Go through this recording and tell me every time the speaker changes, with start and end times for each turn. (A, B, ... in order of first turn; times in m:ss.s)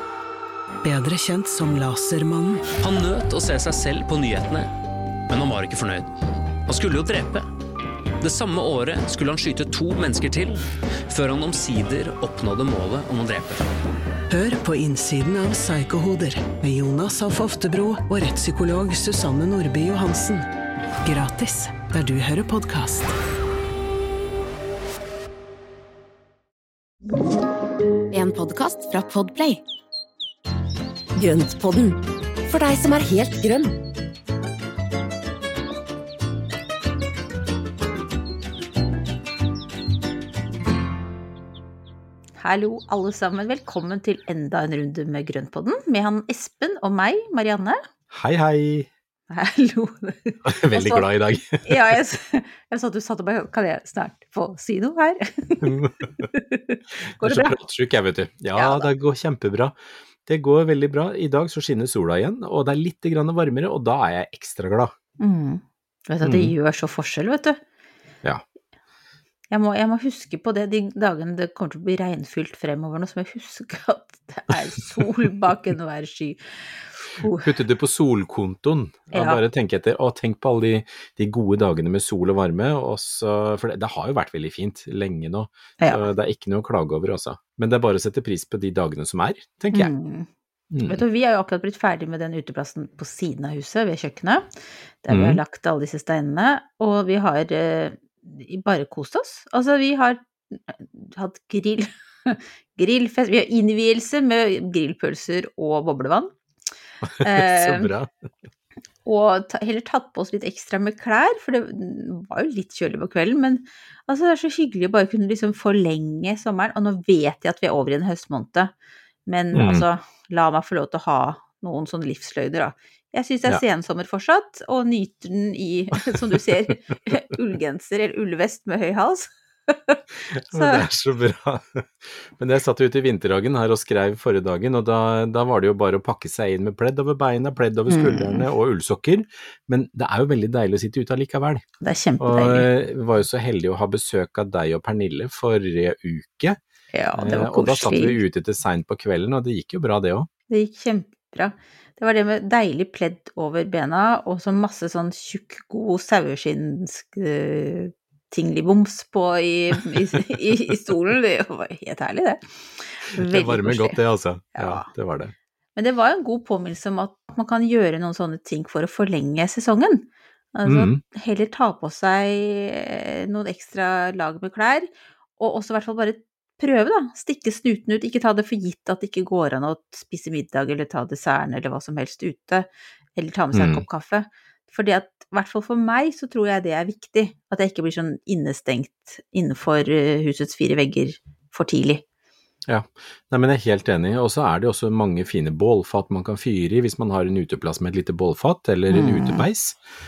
0:00.8-0:02.7 A
0:02.8-0:04.7 B
0:05.3-0:06.1 B
0:06.7-0:07.5 B
0:08.2-0:13.6 B
0:14.3-0:20.5 A
0:21.0-0:23.2 A
0:28.1-0:29.6 C
0:31.1-0:33.8 C
0:42.4-0:47.8 D
0:48.1-0:48.9 E
0:49.3-0:51.1 D
0:50.4-0:51.6 E
0:51.6-0:57.6 D
0:55.6-0:55.9 E
0:57.2-1:04.9 E
0:58.6-0:58.9 D
1:05.2-1:07.6 D
1:06.2-1:06.5 E
1:09.5-1:16.4 D
1:17.0-1:17.5 D
1:17.4-1:29.9 E
1:19.1-1:19.4 D
1:25.8-1:26.1 D
1:29.7-1:30.3 D
1:30.7-1:31.0 E
1:30.8-1:34.4 D
1:35.0-1:46.3 D
1:35.1-1:35.4 E
1:47.0-1:48.1 E
1:47.2-1:47.9 D
1:49.0-1:58.7 D
1:59.2-2:10.8 D
1:59.5-1:59.8 E
2:10.3-2:21.6 E
2:17.9-2:18.5 D
2:21.8-2:22.7 D
2:22.2-2:26.6 E
2:26.9-2:28.2 D
2:27.2-2:30.3 E
2:30.5-2:44.0 D
2:43.2-2:45.3 E
2:44.6-2:44.9 D
2:45.8-3:12.0 D
2:50.6-2:51.0 E
3:03.5-3:03.8 E
3:12.7-3:19.8 E
3:18.9-3:19.4 D